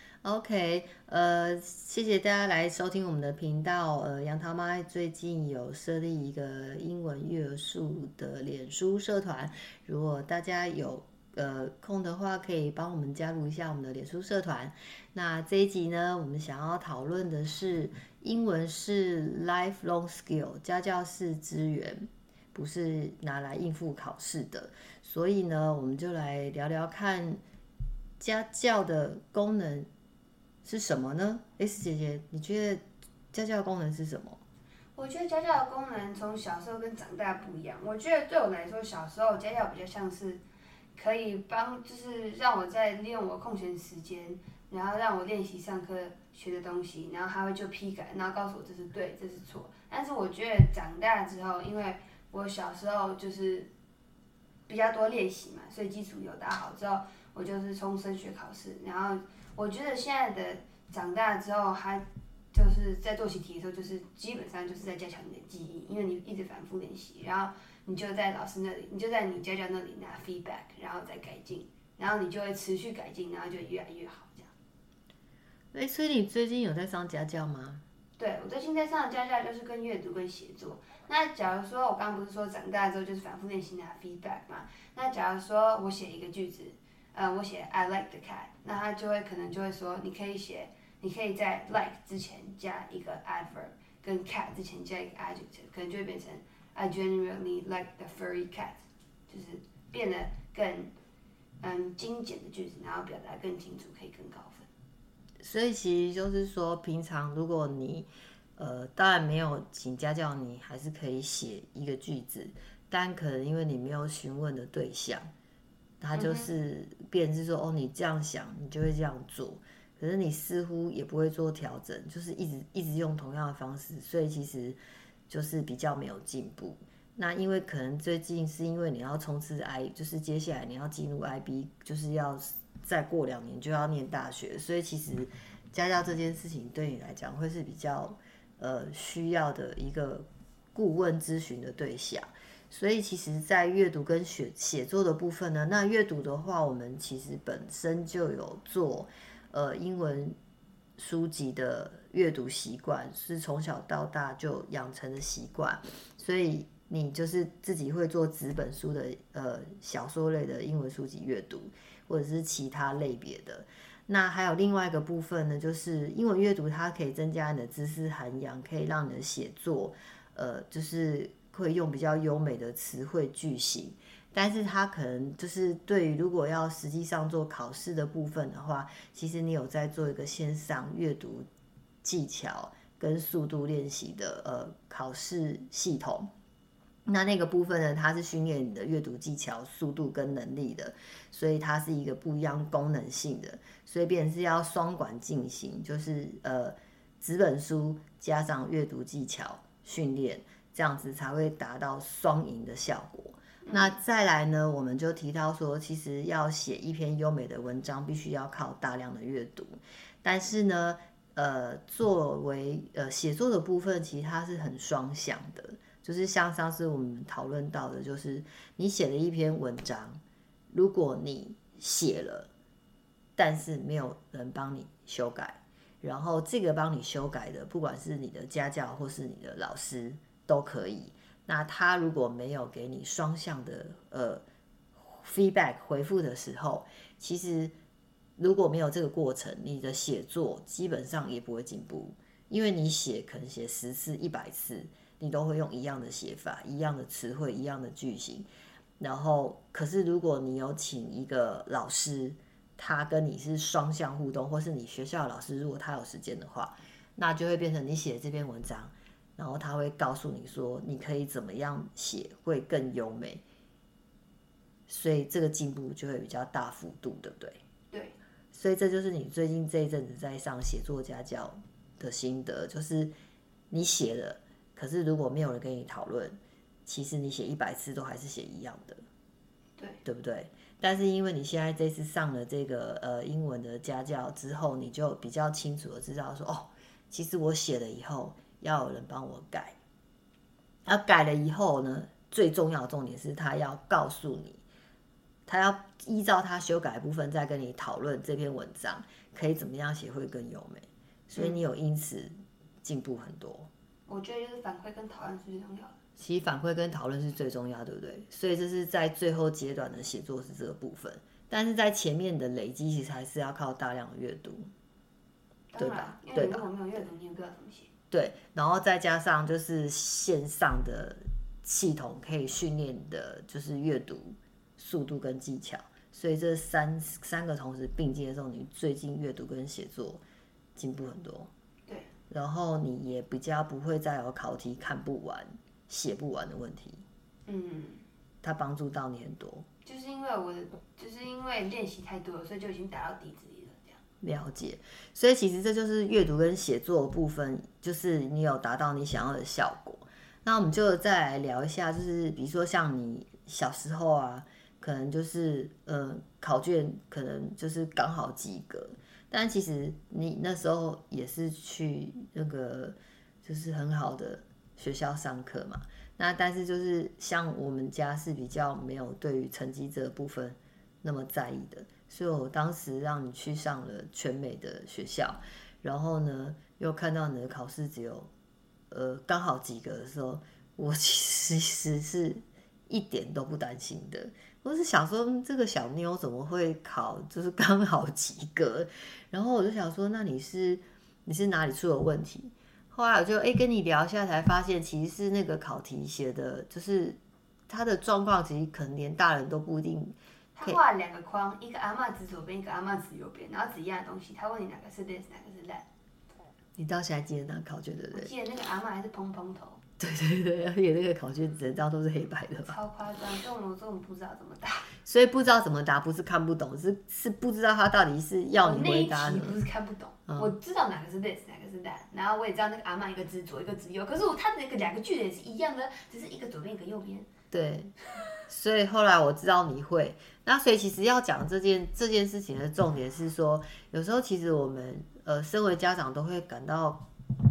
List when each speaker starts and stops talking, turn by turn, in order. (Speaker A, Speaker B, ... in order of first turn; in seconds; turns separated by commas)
Speaker A: 0.2-27.4, Speaker A: 28.2-29.9, Speaker A: 30.6-34.4, Speaker B: 34.9-40.4, Speaker B: 40.9-53.7, Speaker B: 54.7-74.5, Speaker A: 75.7-77.8, Speaker B: 78.2-100.9, Speaker B: 101.6-104.7, Speaker A: 105.4-115.3, Speaker A: 116.0-150.3, Speaker B: 116.1-116.5, Speaker A: 151.0-181.5, Speaker A: 182.0-186.3, Speaker A: 187.1-222.5, Speaker B: 203.6-204.0, Speaker A: 223.3-234.4, Speaker A: 234.9-237.7, Speaker A: 238.4-248.5, Speaker A: 249.0-263.4, Speaker A: 264.9-267.6, Speaker B: 267.9-268.1, Speaker A: 268.5-273.1, Speaker A: 273.7-279.0, Speaker A: 280.0-289.8, Speaker A: 290.9-294.6, Speaker A: 295.5-302.3, Speaker B: 301.4-301.6, Speaker A: 302.8-303.7, Speaker B: 304.1-306.0, Speaker A: 306.2-314.7, Speaker B: 315.7-317.9, Speaker A: 315.8-316.7, Speaker A: 318.1-330.2, Speaker A: 330.8-331.5, Speaker A: 332.3-337.0, Speaker B: 337.5-338.0, Speaker A: 338.4-339.7, Speaker B: 339.8-344.0, Speaker A: 344.2-378.3, Speaker A: 378.9-400.8, Speaker B: 400.5-405.9, Speaker A: 406.8-408.3, Speaker B: 408.1-409.8, Speaker A: 410.0-412.8, Speaker B: 412.6-414.9, Speaker A: 415.0-419.6, Speaker B: 418.6-427.3, Speaker A: 420.3-420.5, Speaker A: 427.5-427.9, Speaker A: 428.5-437.0